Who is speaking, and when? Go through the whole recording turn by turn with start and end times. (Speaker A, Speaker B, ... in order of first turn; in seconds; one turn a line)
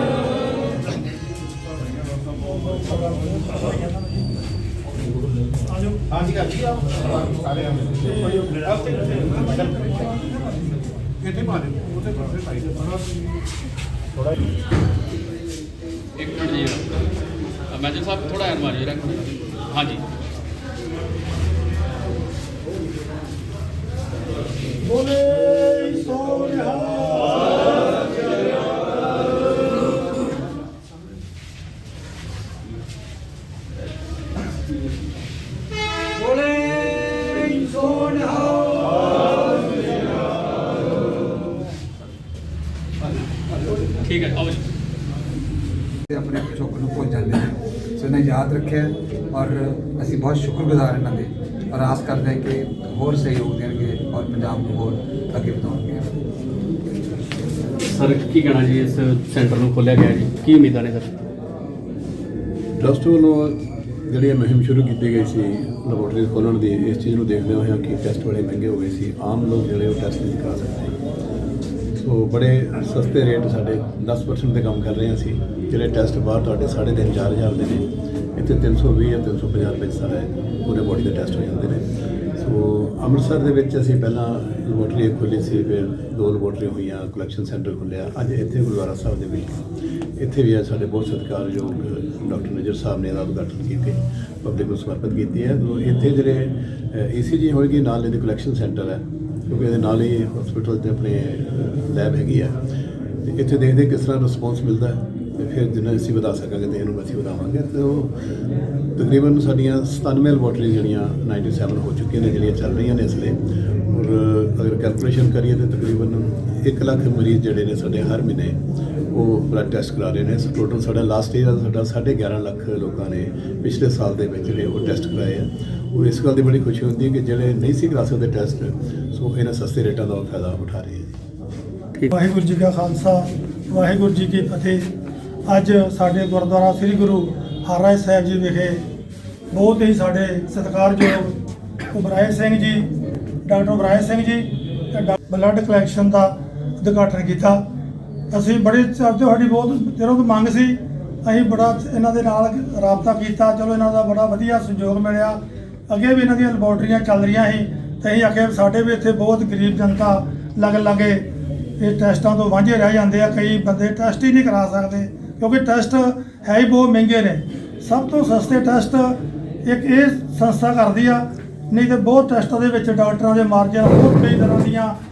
Speaker A: 2.4-4.3
Speaker A: 5.7-6.4
Speaker A: 7.9-10.1
Speaker B: 16.2-16.9
Speaker B: 17.7-20.0
Speaker A: 24.8-27.7
Speaker C: 36.3-40.0
Speaker B: 44.0-44.6
Speaker C: 46.1-56.1
Speaker B: 57.9-61.1
Speaker D: 62.8-71.0
Speaker D: 72.0-81.8
Speaker D: 82.3-89.6
Speaker D: 90.2-102.6
Speaker D: 103.2-108.1
Speaker D: 109.0-118.6
Speaker D: 119.1-131.1
Speaker A: 132.1-134.9
Speaker A: 135.5-138.8
Speaker A: 139.5-141.3
Speaker A: 141.9-142.9
Speaker A: 143.4-147.6
Speaker A: 148.3-161.2
Speaker A: 161.8-174.9